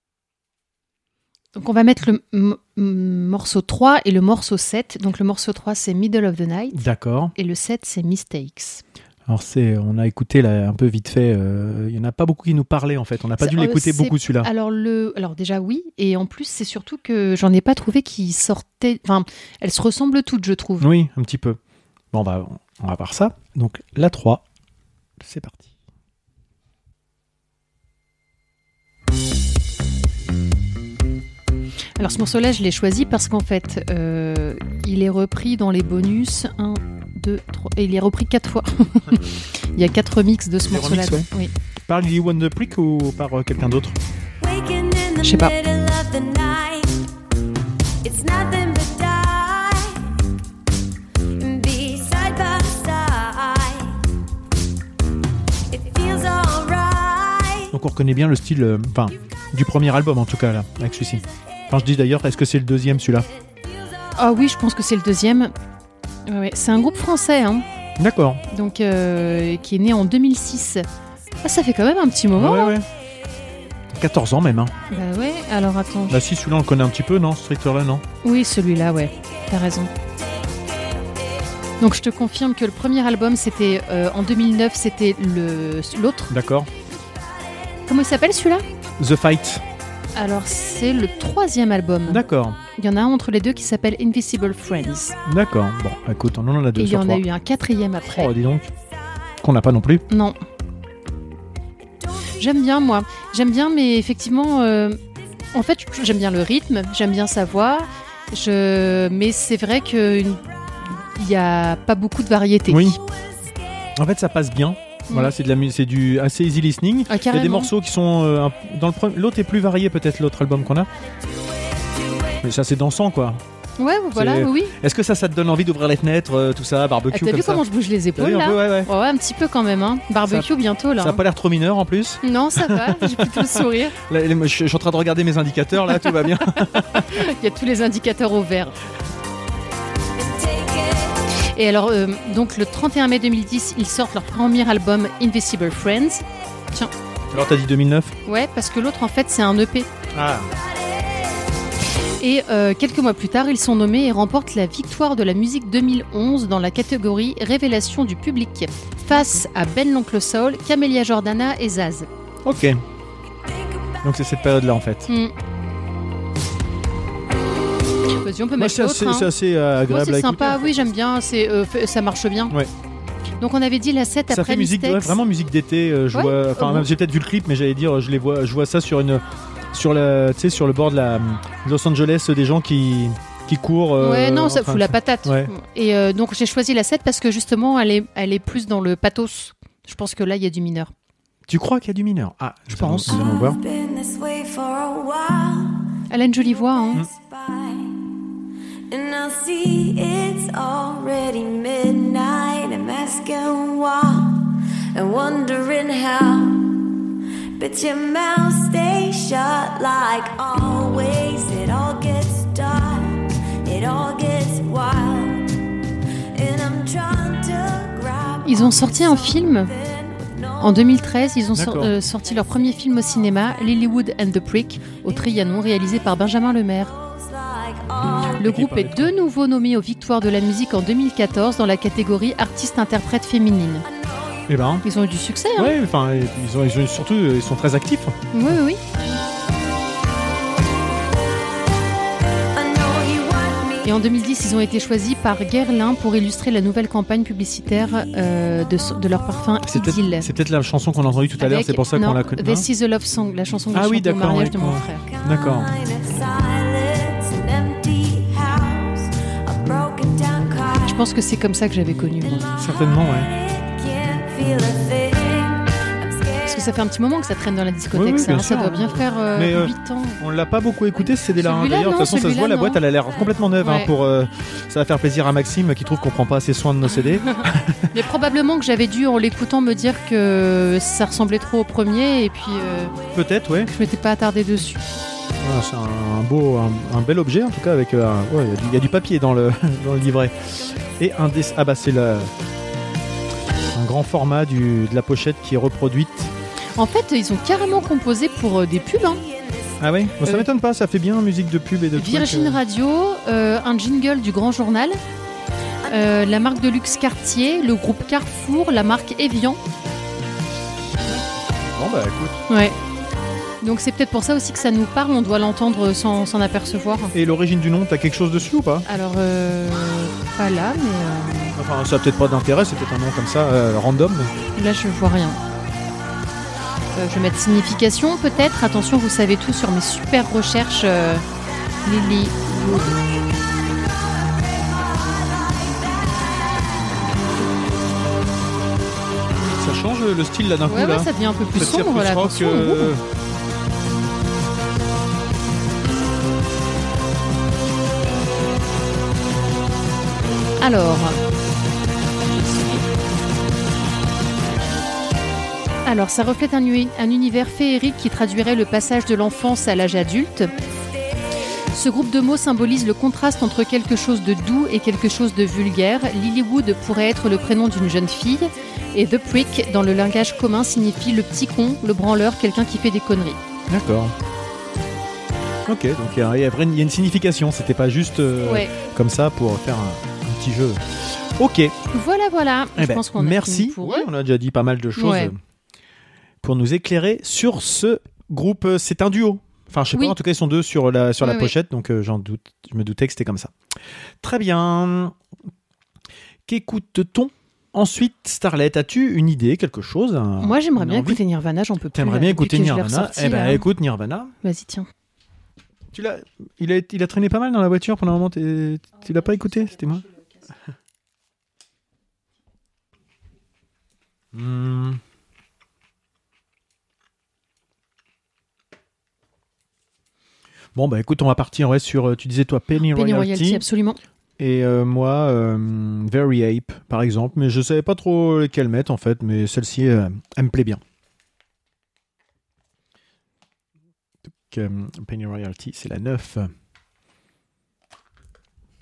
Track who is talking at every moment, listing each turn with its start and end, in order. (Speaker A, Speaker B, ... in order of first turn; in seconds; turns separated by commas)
Speaker A: 1.5-6.8, Speaker B: 6.7-7.3, Speaker A: 7.3-8.8, Speaker B: 9.3-14.5, Speaker A: 13.4-20.9, Speaker B: 20.8-21.6, Speaker B: 22.1-24.4, Speaker B: 25.2-25.7, Speaker A: 32.0-41.5, Speaker B: 40.6-41.3, Speaker B: 41.9-44.0, Speaker C: 44.4-47.1, Speaker A: 45.2-45.5, Speaker C: 48.0-50.1, Speaker C: 51.4-54.0, Speaker C: 55.7-57.7, Speaker B: 57.7-63.3, Speaker A: 64.2-65.5, Speaker A: 66.2-67.7, Speaker B: 68.0-68.4, Speaker A: 68.5-70.8, Speaker A: 71.4-72.8, Speaker B: 72.3-72.8, Speaker B: 73.9-74.7, Speaker A: 74.9-76.2, Speaker B: 76.1-78.0, Speaker A: 78.2-79.9, Speaker A: 81.8-86.3, Speaker B: 86.3-86.7, Speaker A: 87.9-88.6, Speaker B: 89.0-89.6, Speaker A: 90.2-92.2, Speaker B: 92.1-92.6, Speaker A: 92.7-95.2, Speaker B: 95.2-97.2, Speaker A: 96.8-98.3, Speaker B: 98.0-98.7, Speaker B: 99.4-100.0, Speaker A: 100.1-100.3, Speaker A: 102.4-105.0, Speaker A: 105.5-113.0, Speaker B: 112.7-113.0, Speaker B: 114.0-120.9, Speaker A: 117.1-117.7, Speaker B: 122.4-123.4, Speaker A: 123.8-124.7, Speaker B: 124.1-127.6, Speaker A: 127.1-131.2, Speaker B: 128.1-128.9, Speaker B: 131.0-137.2, Speaker A: 132.2-133.9, Speaker A: 136.8-138.8, Speaker C: 140.2-141.2, Speaker A: 141.5-146.9, Speaker B: 147.3-148.2, Speaker A: 148.2-149.9, Speaker B: 150.1-150.5, Speaker A: 152.2-162.1, Speaker B: 162.4-162.8, Speaker B: 164.0-165.1, Speaker A: 165.1-165.3, Speaker A: 168.2-169.3, Speaker B: 168.6-170.7, Speaker A: 169.9-172.5, Speaker A: 173.4-175.2, Speaker B: 174.3-185.5, Speaker A: 176.1-176.9, Speaker A: 184.0-190.9, Speaker B: 191.5-193.6, Speaker A: 192.7-193.3, Speaker C: 193.1-195.8, Speaker A: 196.1-197.0, Speaker C: 196.6-198.0, Speaker C: 198.9-206.9, Speaker C: 207.6-215.5, Speaker C: 216.3-220.9, Speaker A: 218.4-219.7, Speaker A: 220.6-226.9, Speaker B: 221.5-221.9, Speaker C: 226.9-228.4, Speaker B: 228.4-229.1, Speaker A: 228.4-233.8, Speaker C: 234.0-234.4, Speaker B: 234.5-234.8, Speaker A: 234.8-235.7, Speaker B: 235.6-238.2, Speaker A: 238.3-238.8, Speaker C: 242.5-243.9, Speaker A: 243.8-250.3, Speaker B: 249.7-252.7, Speaker A: 251.4-255.0, Speaker B: 253.7-255.7, Speaker C: 255.0-261.0, Speaker A: 260.9-262.5, Speaker C: 262.2-266.8, Speaker B: 262.6-263.3, Speaker A: 266.4-270.2, Speaker B: 267.9-277.9, Speaker A: 271.4-272.8, Speaker A: 273.6-273.9, Speaker A: 277.9-282.9, Speaker B: 283.1-283.7, Speaker A: 283.7-284.8, Speaker B: 285.4-292.3, Speaker B: 293.7-296.3, Speaker A: 296.7-299.2, Speaker C: 299.4-299.8, Speaker B: 299.8-302.6, Speaker A: 301.9-305.0, Speaker A: 305.9-309.6, Speaker B: 311.1-312.4, Speaker A: 312.5-312.8, Speaker A: 313.6-317.1, Speaker B: 317.1-318.9, Speaker A: 318.9-321.6, Speaker B: 321.6-324.3, Speaker A: 324.5-325.4, Speaker A: 326.9-331.2, Speaker A: 331.8-333.0, Speaker B: 339.6-343.0, Speaker A: 340.7-342.9, Speaker A: 350.6-351.2, Speaker A: 352.3-352.8, Speaker A: 355.8-360.5, Speaker A: 361.7-373.4, Speaker B: 373.7-374.1, Speaker B: 375.6-381.8, Speaker A: 378.4-378.7, Speaker A: 381.9-384.1, Speaker B: 382.8-385.4, Speaker A: 385.0-385.3, Speaker B: 386.4-393.5, Speaker A: 391.2-391.5, Speaker B: 394.2-395.1, Speaker B: 396.5-401.2, Speaker A: 400.4-403.6, Speaker B: 401.9-404.3, Speaker A: 404.4-404.9, Speaker B: 405.9-410.0, Speaker B: 414.3-415.0, Speaker B: 420.7-423.6, Speaker A: 422.8-424.0, Speaker B: 424.4-430.8, Speaker B: 434.2-436.5